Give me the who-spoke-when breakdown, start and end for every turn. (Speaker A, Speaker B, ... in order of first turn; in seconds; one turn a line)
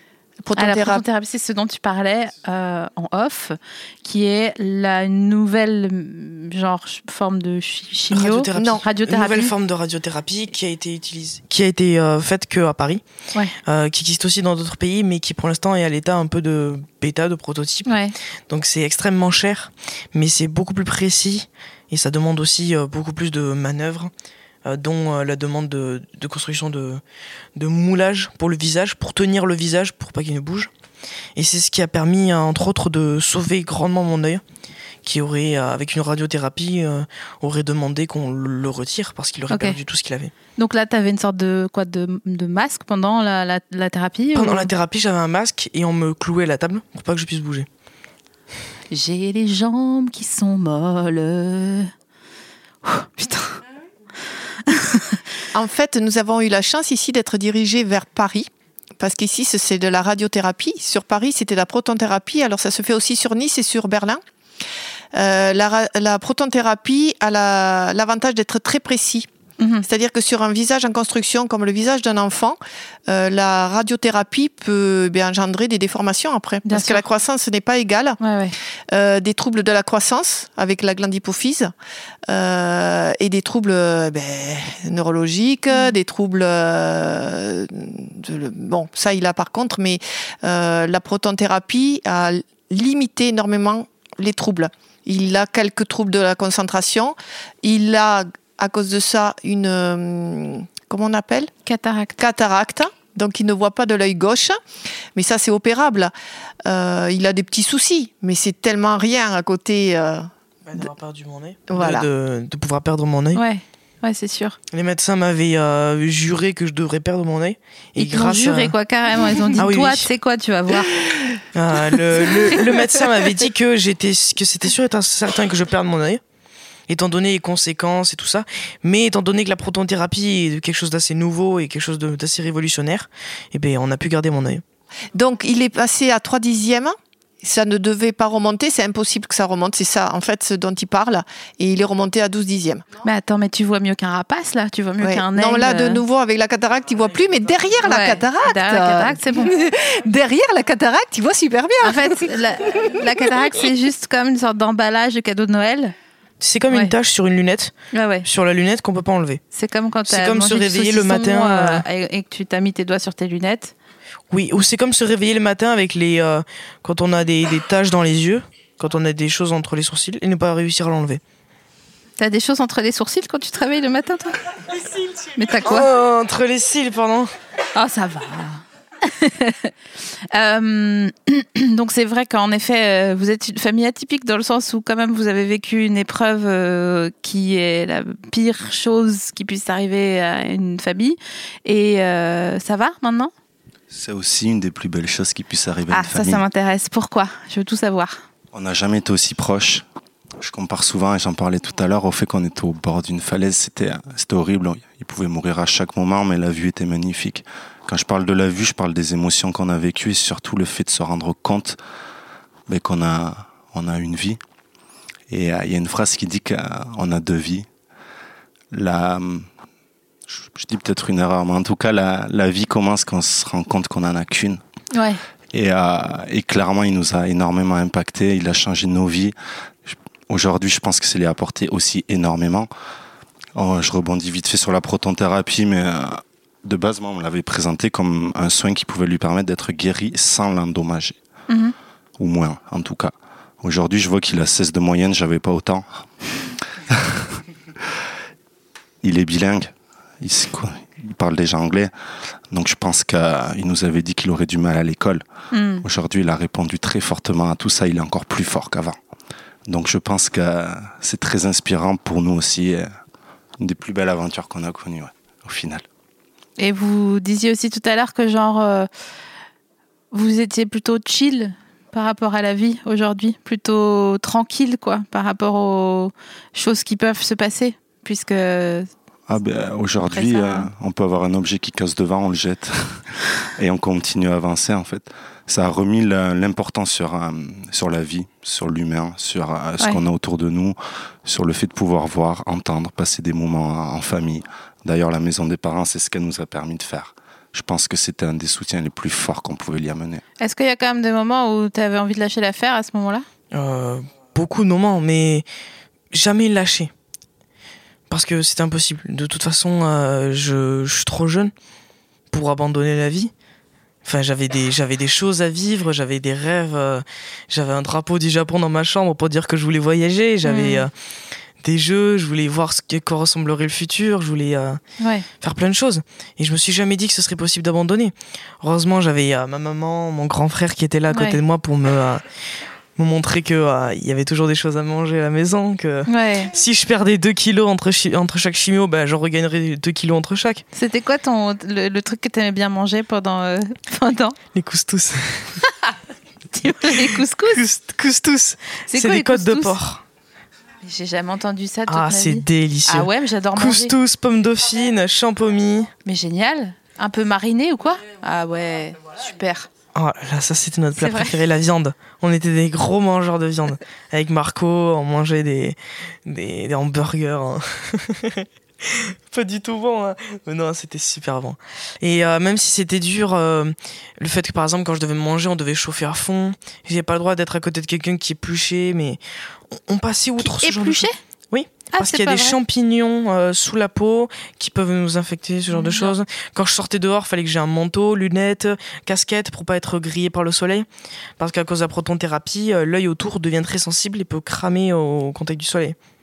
Speaker A: 0.4-1.0
Speaker B: 0.6-9.5
Speaker C: 8.1-13.0
Speaker A: 8.6-8.8
Speaker C: 13.7-17.9
Speaker B: 17.9-18.1
Speaker C: 18.5-24.1
Speaker C: 24.6-27.0
Speaker C: 27.6-30.7
Speaker C: 31.4-34.4
Speaker C: 35.0-40.3
Speaker B: 39.5-39.8
Speaker B: 40.6-44.7
Speaker C: 44.3-47.7
Speaker B: 48.9-51.9
Speaker B: 52.9-53.6
Speaker B: 54.7-55.2
Speaker A: 55.5-64.2
Speaker A: 65.1-69.3
Speaker B: 69.6-69.9
Speaker A: 69.8-78.2
Speaker B: 76.7-77.0
Speaker B: 78.2-78.5
Speaker A: 78.9-81.7
Speaker A: 82.3-101.5
Speaker B: 101.7-102.2
Speaker A: 102.2-104.6
Speaker A: 105.2-106.1
Speaker A: 106.7-110.3
Speaker C: 110.7-113.4
Speaker A: 111.7-112.1
Speaker B: 113.3-114.6
Speaker C: 114.7-118.8
Speaker B: 118.0-121.0
Speaker C: 119.6-120.1
Speaker C: 121.5-126.2
Speaker C: 126.9-134.6
Speaker A: 135.1-142.9
Speaker B: 143.0-146.0
Speaker A: 145.0-152.2
Speaker B: 147.8-149.5
Speaker B: 151.8-155.9
Speaker C: 156.4-157.7
Speaker B: 157.9-158.3
Speaker C: 158.2-159.4
Speaker B: 159.5-163.8
Speaker C: 160.1-161.8
Speaker C: 164.3-171.2
Speaker B: 172.2-174.3
Speaker B: 175.3-175.9
Speaker C: 175.6-177.3
Speaker B: 177.7-193.3
Speaker D: 193.9-196.4
Speaker B: 195.9-198.2
Speaker D: 198.5-199.8
Speaker D: 200.4-211.8
Speaker D: 212.7-214.4
Speaker D: 215.3-217.7
Speaker D: 218.7-219.5
Speaker D: 220.3-224.6
Speaker B: 224.9-225.2
Speaker D: 225.5-232.7
Speaker D: 233.6-241.2
Speaker B: 241.5-241.8
Speaker D: 242.2-246.1
Speaker D: 246.9-248.0
Speaker D: 249.0-251.9
Speaker D: 252.5-255.2
Speaker B: 255.5-255.8
Speaker D: 255.8-259.0
Speaker D: 259.7-262.9
Speaker D: 263.6-265.9
Speaker B: 266.6-268.9
Speaker B: 270.1-278.9
Speaker D: 279.3-300.2
Speaker B: 280.1-280.7
Speaker B: 300.4-303.3
Speaker C: 303.5-305.5
Speaker C: 306.1-306.9
Speaker C: 308.1-311.5
Speaker C: 312.3-313.3
Speaker C: 314.1-320.9
Speaker B: 320.4-320.9
Speaker C: 321.6-324.8
Speaker B: 325.0-325.3
Speaker C: 325.4-332.2
Speaker B: 331.1-331.4
Speaker C: 333.0-340.6
Speaker B: 336.1-336.5
Speaker B: 340.7-344.4
Speaker C: 344.5-345.6
Speaker B: 345.6-345.9
Speaker B: 346.5-347.6
Speaker C: 347.5-350.0
Speaker B: 348.9-349.8
Speaker B: 350.8-353.9
Speaker C: 351.9-355.9
Speaker B: 356.1-359.7
Speaker C: 359.9-390.9
Speaker B: 361.0-361.4
Speaker B: 380.4-381.2
Speaker B: 381.9-382.6
Speaker B: 385.7-386.2
Speaker C: 391.4-396.0